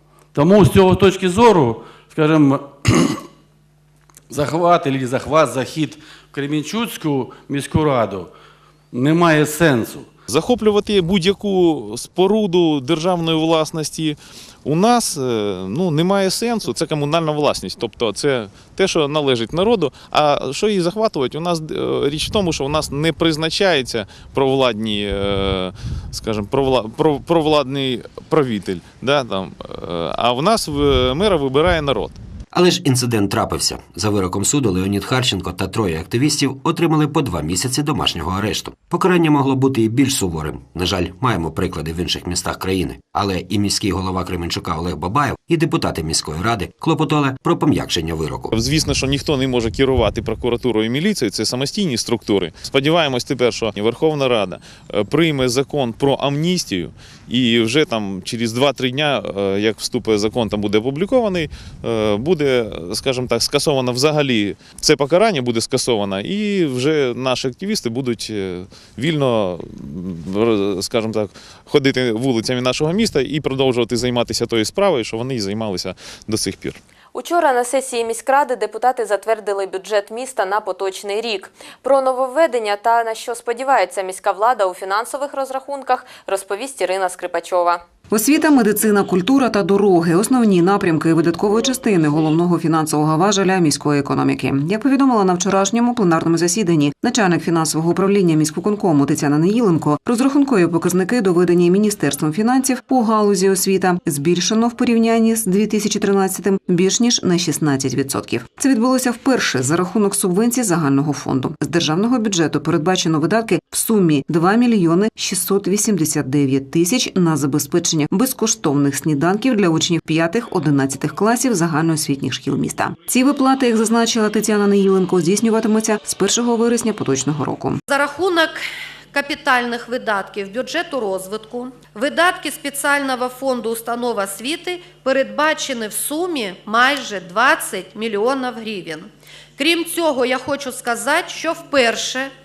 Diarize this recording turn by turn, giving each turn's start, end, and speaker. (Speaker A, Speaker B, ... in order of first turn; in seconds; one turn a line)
Speaker A: 0.3-3.2
Speaker A: 4.3-8.3
Speaker A: 8.9-10.1
Speaker B: 10.3-32.2
Speaker C: 32.5-48.6
Speaker B: 48.6-76.8
Speaker D: 77.1-87.8
Speaker E: 88.1-127.8
Speaker F: 127.9-142.3